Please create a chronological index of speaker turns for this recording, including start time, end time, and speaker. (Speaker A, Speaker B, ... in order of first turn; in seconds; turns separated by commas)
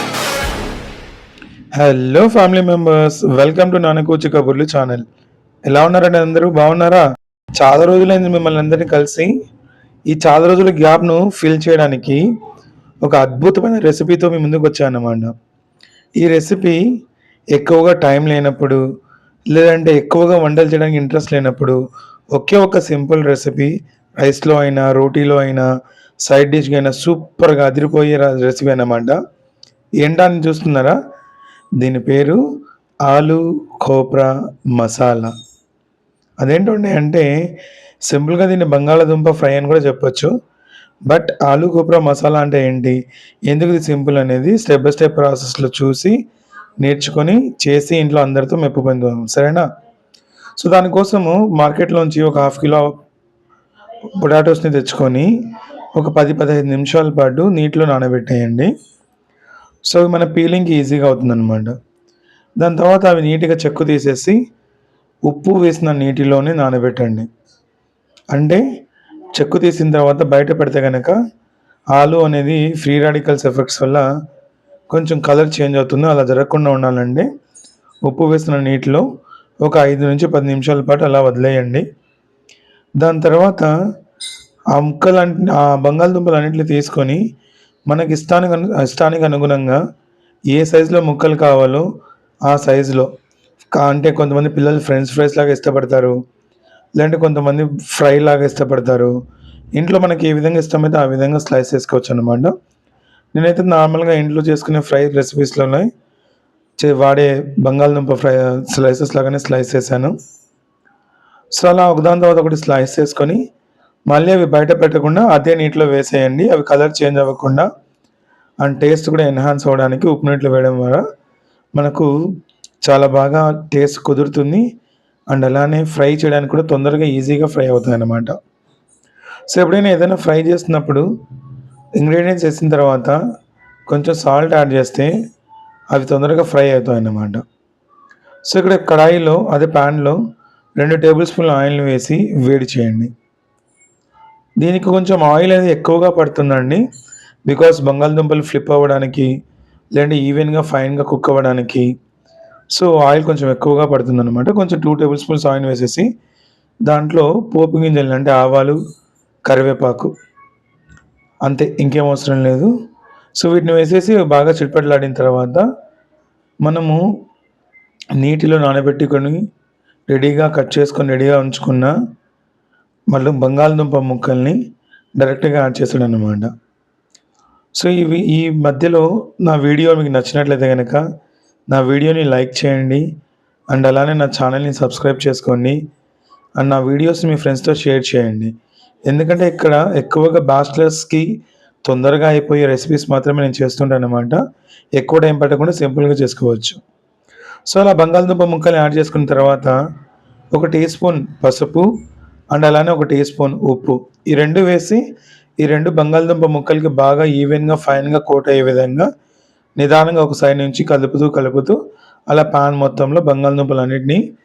Speaker A: 1.8-5.1, Speaker A: 5.7-7.0, Speaker A: 7.6-9.3, Speaker A: 10.1-12.2, Speaker A: 13.0-15.3, Speaker A: 16.2-16.8, Speaker A: 17.5-18.8, Speaker A: 19.5-21.8, Speaker A: 22.3-25.7, Speaker A: 26.3-29.1, Speaker A: 30.0-31.0, Speaker A: 31.8-32.4, Speaker A: 33.1-35.3, Speaker A: 36.4-37.3, Speaker A: 38.1-40.3, Speaker A: 41.1-46.2, Speaker A: 46.8-49.6, Speaker A: 50.6-52.9, Speaker A: 54.1-55.3, Speaker A: 56.0-58.7, Speaker A: 59.9-61.8, Speaker A: 62.6-64.4, Speaker A: 65.3-67.3, Speaker A: 68.3-68.6, Speaker A: 69.4-71.2, Speaker A: 72.0-74.1, Speaker A: 74.9-77.3, Speaker A: 78.0-79.0, Speaker A: 79.6-81.8, Speaker A: 83.0-83.7, Speaker A: 84.7-87.2, Speaker A: 87.9-89.8, Speaker A: 90.5-91.9, Speaker A: 92.5-93.1, Speaker A: 93.8-96.2, Speaker A: 97.0-99.1, Speaker A: 99.8-102.5, Speaker A: 103.3-105.9, Speaker A: 106.8-110.1, Speaker A: 111.6-113.4, Speaker A: 114.1-117.7, Speaker A: 118.6-121.0, Speaker A: 121.8-122.1, Speaker A: 122.8-124.7, Speaker A: 125.3-128.3, Speaker A: 129.5-131.1, Speaker A: 132.0-133.2, Speaker A: 133.9-135.1, Speaker A: 135.9-137.4, Speaker A: 138.5-140.2, Speaker A: 140.8-143.1, Speaker A: 144.6-146.8, Speaker A: 147.5-149.3, Speaker A: 149.9-151.9, Speaker A: 152.7-156.1, Speaker A: 156.9-158.8, Speaker A: 159.5-160.1, Speaker A: 161.5-162.7, Speaker A: 163.4-165.7, Speaker A: 166.6-167.0, Speaker A: 168.2-169.4, Speaker A: 170.1-171.9, Speaker A: 173.1-174.6, Speaker A: 175.2-176.5, Speaker A: 177.8-181.0, Speaker A: 181.7-183.1, Speaker A: 183.7-185.8, Speaker A: 186.6-188.5, Speaker A: 189.1-191.3, Speaker A: 191.9-194.4, Speaker A: 195.0-196.8, Speaker A: 197.7-199.8, Speaker A: 200.5-201.9, Speaker A: 202.5-205.0, Speaker A: 205.6-209.1, Speaker A: 209.8-214.2